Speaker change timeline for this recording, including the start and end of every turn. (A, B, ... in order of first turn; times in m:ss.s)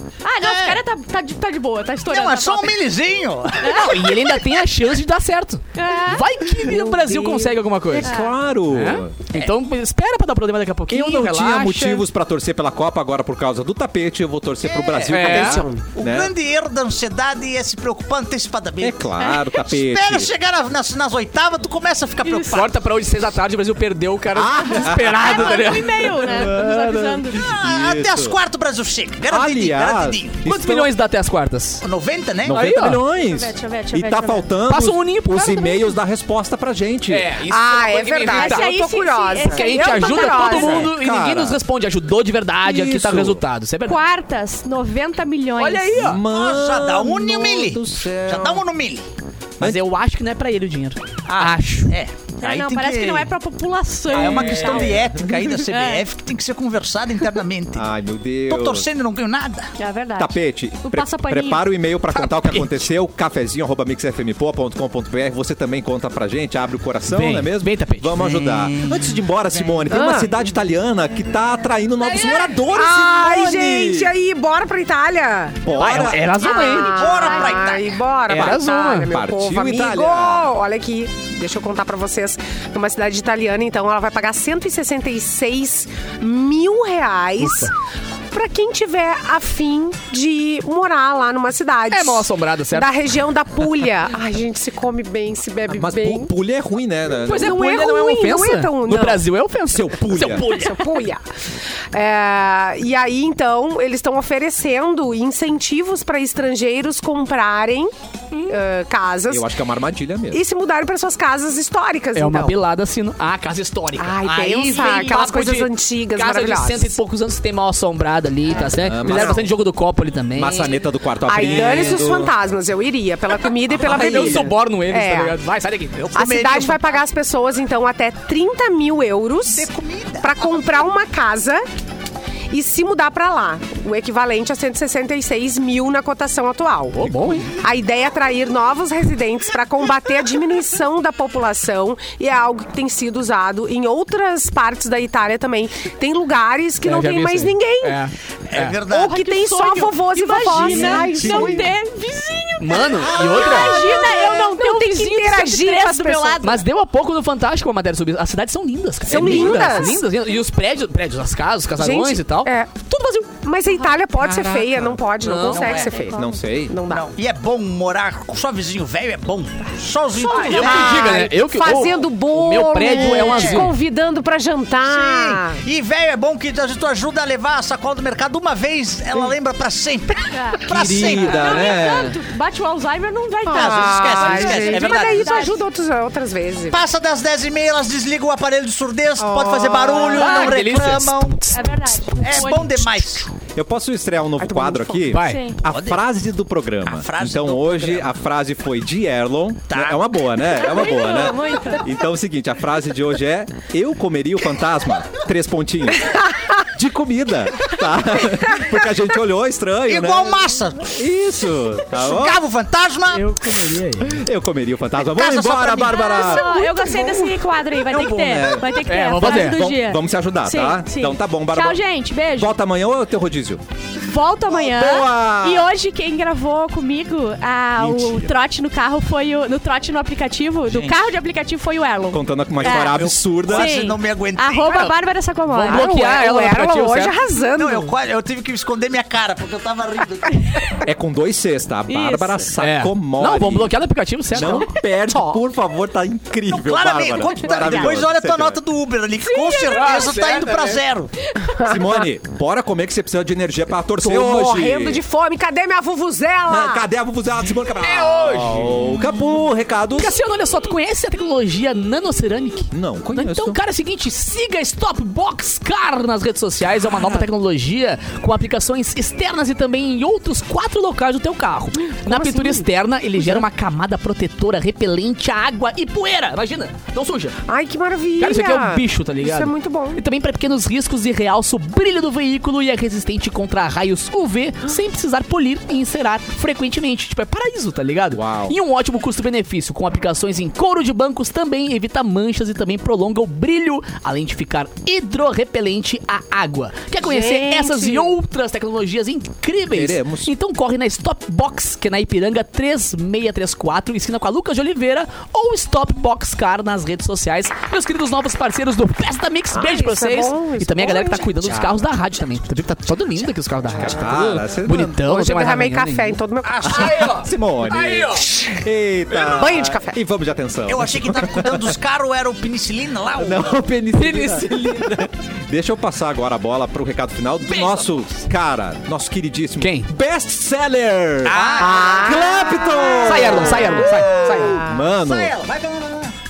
0:00.2-0:02.8 A
0:00.4-0:00.8 B
0:02.1-0:03.9 B
0:03.6-0:04.0 A
0:03.7-0:08.1 C
0:05.8-0:06.3 A
0:06.6-0:07.6 D
0:08.0-0:09.1 E
0:08.0-0:08.3 A
0:08.7-0:12.1 C
0:10.9-0:16.3 E
0:14.6-0:19.0 B
0:15.1-0:15.6 C
0:15.3-0:15.8 D
0:18.8-0:20.3 E
0:19.6-0:22.7 B
0:22.2-0:22.6 A
0:22.5-0:26.3 C
0:24.4-0:28.4 E
0:25.0-0:27.4 A
0:27.4-0:30.4 B
0:29.3-0:30.9 E
0:30.4-0:31.8 C
0:31.8-0:32.6 B
0:32.4-0:37.3 E
0:32.5-0:33.0 C
0:33.2-0:34.5 A
0:34.7-0:35.9 C
0:37.1-0:38.7 C
0:37.5-0:40.9 D
0:38.3-0:40.9 A
0:39.4-0:44.0 C
0:40.8-0:41.6 E
0:42.6-0:43.4 E
0:43.8-0:46.2 A
0:45.6-0:46.2 C
0:46.0-0:48.6 E
0:46.3-0:49.0 B
0:49.6-0:52.0 C
0:51.3-0:53.3 B
0:52.4-0:55.0 A
0:54.1-0:57.9 B
0:54.2-0:55.2 E
0:55.7-0:56.1 A
0:57.8-0:58.9 E
0:58.5-0:59.7 B
0:59.8-1:01.6 A
1:00.2-1:14.1 E
1:02.2-1:02.9 C
1:07.1-1:08.3 C
1:08.2-1:10.1 B
1:09.9-1:10.3 D
1:12.7-1:27.7 D
1:15.6-1:16.4 E
1:15.7-1:17.0 C
1:16.4-1:17.7 A
1:16.8-1:18.0 B
1:18.3-1:19.1 C
1:18.3-1:20.5 E
1:27.4-1:27.7 C
1:28.3-1:36.3 D
1:31.9-1:32.9 C
1:35.7-1:37.6 E
1:37.2-1:40.9 C
1:37.3-1:39.2 D
1:39.7-1:40.5 E
1:40.5-1:41.2 D
1:41.9-1:47.9 D
1:48.5-1:49.5 D
1:49.3-1:50.4 E
1:50.3-1:52.6 D
1:52.1-2:00.8 C
1:54.0-1:57.0 D
1:54.2-1:55.2 B
1:58.8-1:59.5 E
1:59.1-1:59.4 D
2:00.4-2:02.3 E
2:01.3-2:05.4 D
2:01.4-2:02.1 C
2:03.7-2:06.0 C
2:03.7-2:04.5 E
2:06.0-2:07.0 B
2:06.1-2:09.7 D
2:09.5-2:10.5 B
2:10.2-2:11.6 D
2:12.5-2:17.0 D
2:16.9-2:17.5 C
2:17.6-2:28.0 D
2:26.8-2:28.8 C
2:28.5-2:29.2 B
2:28.9-2:31.7 D
2:28.9-2:36.6 A
2:30.7-2:31.7 B
2:30.9-2:31.7 E
2:32.6-2:33.8 C
2:33.1-2:36.5 D
2:36.4-2:42.5 C
2:39.0-2:40.0 D
2:41.8-2:47.1 D
2:44.3-2:44.7 E
2:45.2-2:45.9 C
2:45.4-2:46.0 B
2:45.9-2:46.2 A
2:46.2-2:46.8 E
2:46.9-2:51.2 B
2:50.3-2:53.8 C
2:50.3-2:55.6 D
2:50.3-2:50.7 A
2:53.0-2:53.7 B
2:54.8-3:01.9 B
3:00.3-3:05.6 A
3:00.7-3:02.2 E
3:03.5-3:06.8 D
3:03.5-3:05.6 B
3:06.7-3:11.4 B
3:09.2-3:09.8 E
3:09.4-3:10.4 D
3:10.0-3:12.8 C
3:10.1-3:10.6 A
3:11.5-3:12.8 A
3:12.2-3:13.3 B
3:13.5-3:32.4 E
3:14.4-3:15.1 D
3:15.1-3:15.4 C
3:15.2-3:15.6 A
3:15.7-3:16.0 B
3:16.8-3:18.1 B
3:19.7-3:20.0 B
3:20.6-3:21.9 A
3:29.9-3:31.0 B
3:32.0-3:33.3 B
3:33.1-3:34.2 C
3:34.0-3:36.5 E
3:35.1-3:36.4 B
3:35.9-3:42.5 A
3:36.5-3:37.3 D
3:37.9-3:41.8 E
3:38.8-3:39.6 C
3:42.3-3:43.6 E
3:44.0-3:56.0 A
3:44.5-3:45.7 E
3:47.8-3:48.4 E
3:50.7-3:51.1 B
3:52.1-3:53.8 E
3:52.6-3:54.7 B
3:54.7-3:55.0 C
3:55.5-3:57.2 C
3:55.7-3:58.0 D
3:57.6-4:00.5 B
4:00.4-4:00.7 A
4:00.8-4:03.7 E
4:01.9-4:02.5 A
4:02.6-4:04.7 C
4:04.3-4:08.6 E
4:05.1-4:05.4 D
4:06.5-4:11.1 B
4:09.2-4:10.0 A
4:09.6-4:10.8 C
4:11.6-4:12.0 D
4:11.6-4:15.0 E
4:14.0-4:16.9 D
4:16.5-4:20.2 E
4:17.8-4:19.0 C
4:20.0-4:37.4 C
4:22.7-4:23.6 E
4:26.9-4:27.2 E
4:32.1-4:32.6 D
4:33.2-4:33.4 D
4:37.5-4:40.0 D
4:38.2-5:18.3 C
4:48.1-4:48.6 E
4:57.0-4:58.2 D
4:59.7-5:00.3 E
5:09.5-5:11.7 D
5:13.7-5:14.1 D
5:13.8-5:15.0 E
5:15.1-5:17.0 D
5:16.5-5:17.2 B
5:16.6-5:21.7 E
5:19.2-5:20.0 D
5:20.7-5:23.5 B
5:23.2-5:34.1 E
5:24.0-5:25.1 C
5:27.5-5:27.9 C
5:29.6-5:29.9 C
5:31.2-5:32.2 B
5:31.6-5:34.9 D
5:33.0-5:34.6 C
5:34.6-5:35.3 E
5:34.9-5:36.2 B